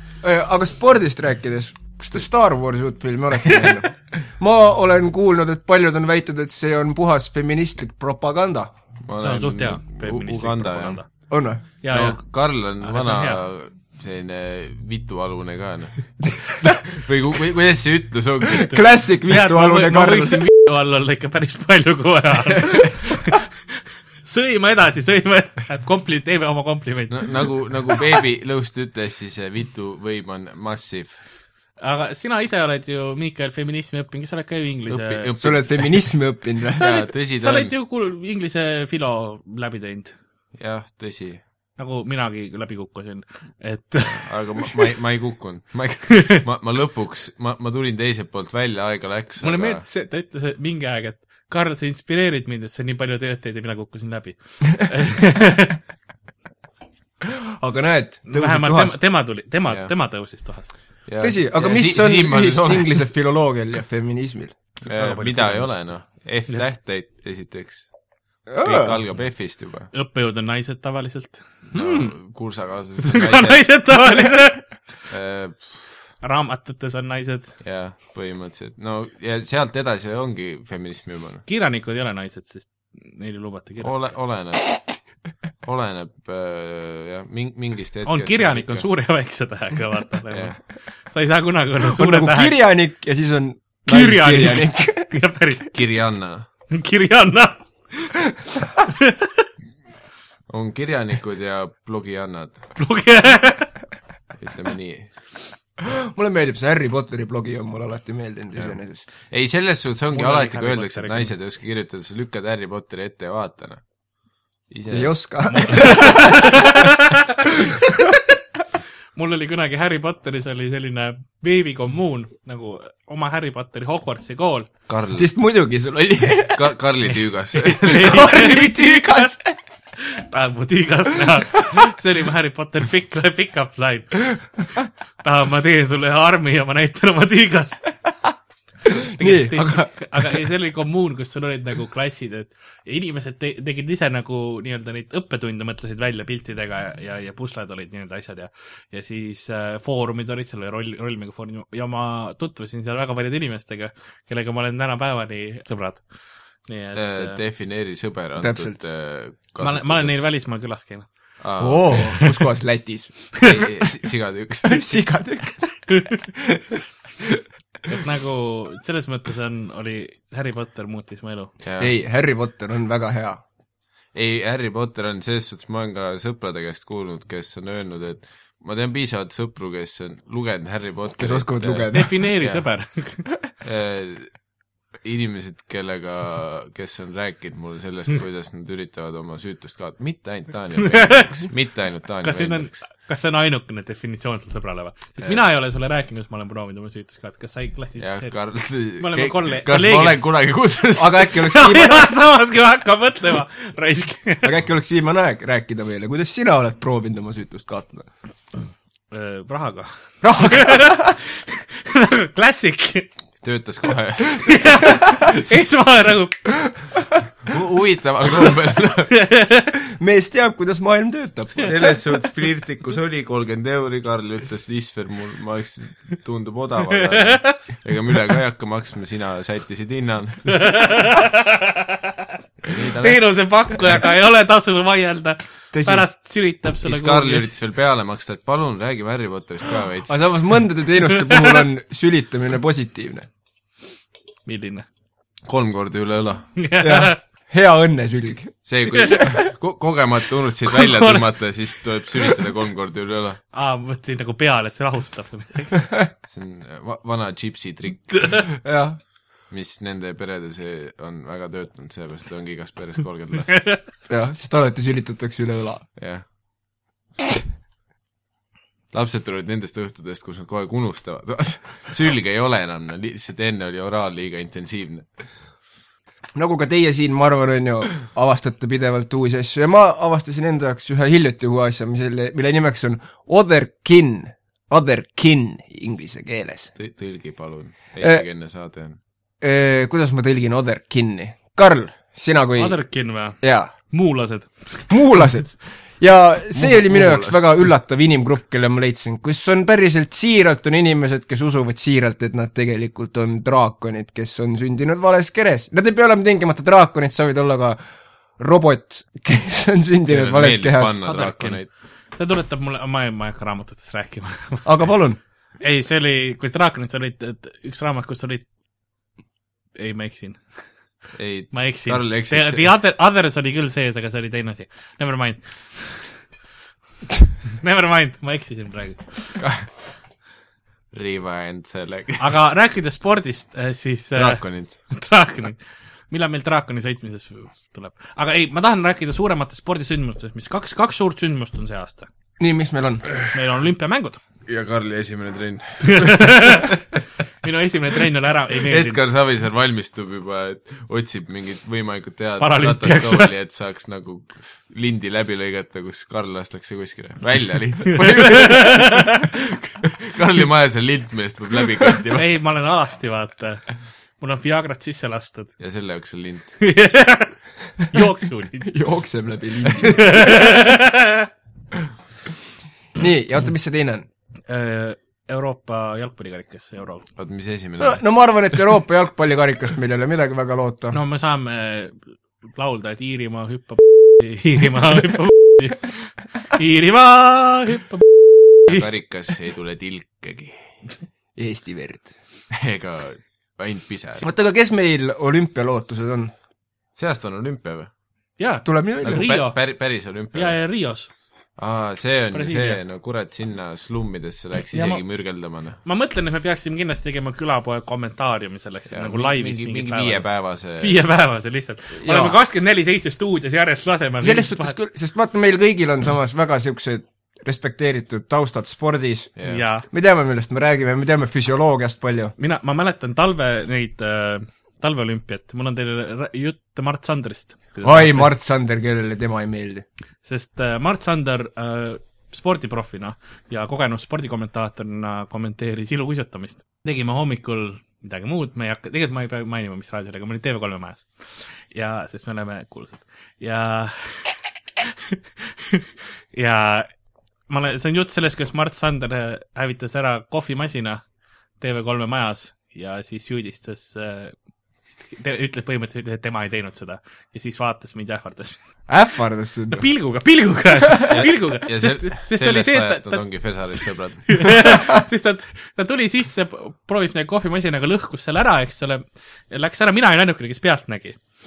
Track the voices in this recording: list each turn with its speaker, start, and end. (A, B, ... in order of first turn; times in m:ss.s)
0:00.2-0:08.7 A
0:09.0-0:11.0 B
0:09.2-0:11.1 C
0:11.3-0:11.6 A
0:11.8-0:12.2 C
0:11.9-0:18.8 B
0:12.8-0:13.4 C
0:16.3-0:16.8 A
0:18.5-0:20.5 A
0:19.3-0:23.5 C
0:24.2-0:27.3 C
0:27.1-0:31.2 B
0:31.8-0:35.3 C
0:34.9-0:36.0 B
0:35.4-0:36.9 A
0:36.7-0:40.2 C
0:36.7-0:37.7 B
0:40.5-0:41.4 B
0:41.8-0:44.3 C
0:44.0-0:49.8 B
0:49.4-0:55.8 C
0:57.5-0:59.0 A
0:58.2-1:00.7 C
1:01.0-1:03.1 B
1:01.2-1:04.5 A
1:04.8-1:05.8 C
1:04.8-1:07.9 B
1:08.5-1:09.0 A
1:08.6-1:09.9 B
1:09.9-1:12.1 C
1:11.7-1:13.9 B
1:13.0-1:14.7 C
1:15.1-1:16.0 B
1:16.2-1:17.6 C
1:17.6-1:21.4 B
1:21.4-1:24.0 C
1:23.8-1:24.8 B
1:25.6-1:28.9 B
1:28.0-1:30.6 C
1:30.3-1:30.6 B
1:31.1-1:32.5 C
1:31.9-1:35.1 A
1:33.8-1:35.7 C
1:35.7-1:36.5 B
1:36.7-1:38.1 C
1:38.9-1:39.4 C
1:40.5-1:42.7 B
1:42.8-1:43.7 C
1:44.4-1:45.1 B
1:45.8-1:49.1 A
1:49.3-1:53.8 B
1:50.1-1:51.3 C
1:54.7-1:55.4 B
1:54.9-1:56.8 A
1:55.5-1:58.1 C
1:59.2-2:04.7 C
2:04.9-2:05.3 B
2:05.1-2:06.7 A
2:06.5-2:08.2 B
2:07.5-2:09.3 C
2:07.9-2:09.6 A
2:10.0-2:14.2 C
2:11.6-2:11.9 A
2:15.2-2:17.9 C
2:18.8-2:19.9 A
2:19.1-2:36.0 C
2:36.6-2:37.4 C
2:36.9-2:40.3 B
2:38.4-2:38.8 A
2:39.6-2:41.1 C
2:41.4-2:42.2 B
2:41.6-2:43.6 A
2:43.4-2:45.0 B
2:44.6-2:47.3 A
2:47.9-2:51.5 C
2:51.6-2:51.9 B
2:51.8-2:53.4 A
2:54.1-3:02.6 B
3:01.2-3:02.1 A
3:01.9-3:03.2 C
3:03.6-3:04.4 B
3:05.0-3:12.8 B
3:10.9-3:11.3 C
3:12.2-3:18.3 C
3:18.0-3:21.2 B
3:19.0-3:20.2 C
3:20.9-3:22.1 A
3:21.4-3:24.5 C
3:24.4-3:28.1 A
3:29.1-3:33.1 C
3:30.2-3:31.1 A
3:33.4-3:35.5 B
3:34.4-3:36.4 C
3:37.4-3:39.1 B
3:39.1-3:39.7 C
3:39.8-3:42.0 A
3:41.6-3:51.1 B
3:47.2-3:47.6 C
3:50.5-3:52.1 C
3:52.6-3:53.2 B
3:53.0-3:57.5 C
3:55.7-3:56.0 A
3:56.8-4:00.2 B
4:00.1-4:03.3 A
4:04.4-4:04.8 C
4:05.4-4:06.5 B
4:06.6-4:07.2 C
4:06.8-4:08.6 A
4:08.6-4:13.4 B
4:08.9-4:09.4 C
4:10.7-4:11.2 C
4:13.5-4:15.7 C
4:16.3-4:18.5 B
4:18.1-4:18.4 C
4:18.6-4:19.0 A
4:19.5-4:23.7 B
4:24.1-4:25.8 A
4:26.0-4:26.2 B
4:28.9-4:35.0 B
4:36.3-4:46.7 A
4:46.8-4:49.0 B
4:49.4-4:52.8 A
4:52.6-4:55.3 C
4:53.4-4:53.7 A
4:54.9-5:07.8 A
4:56.5-4:57.7 B
5:08.4-5:11.0 A
5:10.1-5:11.7 B
5:11.0-5:11.6 C
5:12.1-5:14.8 C
5:14.6-5:15.2 A
5:15.6-5:18.4 C
5:19.7-5:20.4 C
5:21.1-5:22.7 B
5:21.5-5:26.1 C
5:27.6-5:29.4 C
5:30.9-5:32.4 B
5:32.2-5:42.1 C
5:34.1-5:34.8 B
5:42.4-5:43.1 A
5:43.3-5:44.2 C
5:44.5-5:46.7 B
5:45.8-5:46.8 C
5:47.4-5:49.0 C
5:48.6-6:02.3 B
5:52.4-5:53.3 C
5:58.0-5:59.2 C
6:02.1-6:03.6 C
6:04.2-6:05.5 C
6:05.6-6:06.6 B
6:06.6-6:07.4 C
6:07.9-6:08.7 C
6:08.6-6:10.5 A
6:09.8-6:11.3 C
6:12.9-6:14.1 A
6:14.5-6:17.1 C
6:17.2-6:18.0 B
6:17.8-6:21.0 A
6:20.9-6:28.0 C
6:28.6-6:30.8 B
6:31.4-6:32.1 A
6:32.5-6:34.3 B
6:34.2-6:36.3 A
6:37.0-6:37.9 B
6:38.4-6:39.6 C
6:38.6-6:39.3 A
6:39.0-6:40.6 B
6:40.3-6:41.1 C
6:41.6-6:45.8 B
6:42.3-6:42.8 C
6:44.7-6:45.0 C
6:45.8-6:54.8 C
6:48.9-6:51.0 B
6:52.0-6:52.4 A
6:54.2-7:02.3 A
6:59.4-6:59.6 B
6:59.4-6:59.8 C
7:02.4-7:08.3 C
7:07.8-7:09.8 A
7:10.2-7:26.9 C
7:27.5-7:31.0 C
7:31.6-7:34.4 C
7:35.0-7:38.6 C
7:38.9-7:39.8 A
7:39.7-7:43.2 C
7:41.1-7:44.7 B
7:44.3-7:51.2 C